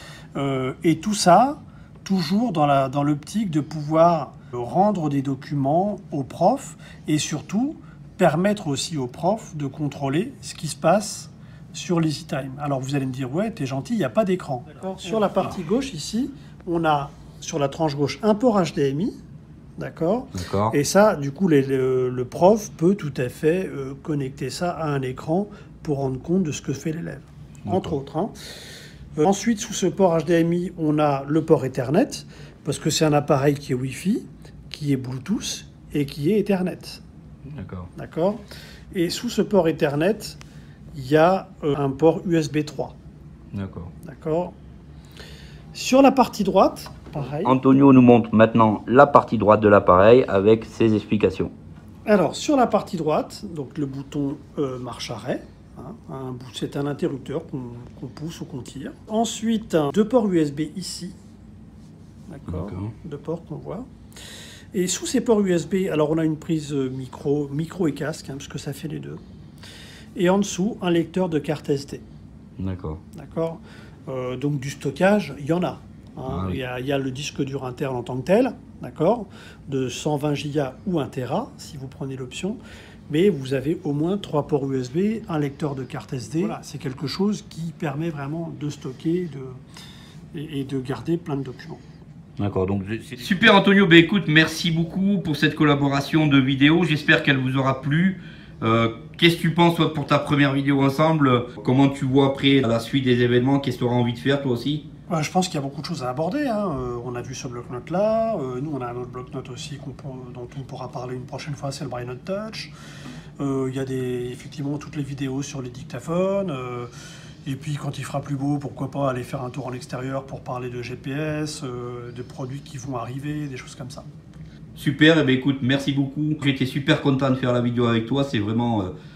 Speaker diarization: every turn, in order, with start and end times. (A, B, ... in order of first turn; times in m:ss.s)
0:00.4-0:19.2 A
0:19.8-0:28.3 A
0:20.3-0:20.8 B
0:27.7-0:28.0 B
0:29.2-0:37.0 A
0:37.5-0:37.9 B
0:38.0-0:40.4 A
0:40.9-0:43.0 A
0:43.5-0:43.9 B
0:44.0-0:44.6 A
0:45.7-0:47.6 A
0:47.3-0:51.5 B
0:52.0-1:01.2 A
1:02.3-1:03.8 A
1:02.5-1:02.9 B
1:04.7-1:09.2 A
1:10.1-1:12.0 A
1:12.6-1:13.0 B
1:13.1-1:29.6 A
1:16.3-1:16.6 B
1:30.3-1:31.8 A
1:32.4-1:44.8 B
1:45.1-1:52.7 A
1:53.4-1:56.9 A
1:57.4-2:04.1 A
2:04.8-2:08.9 B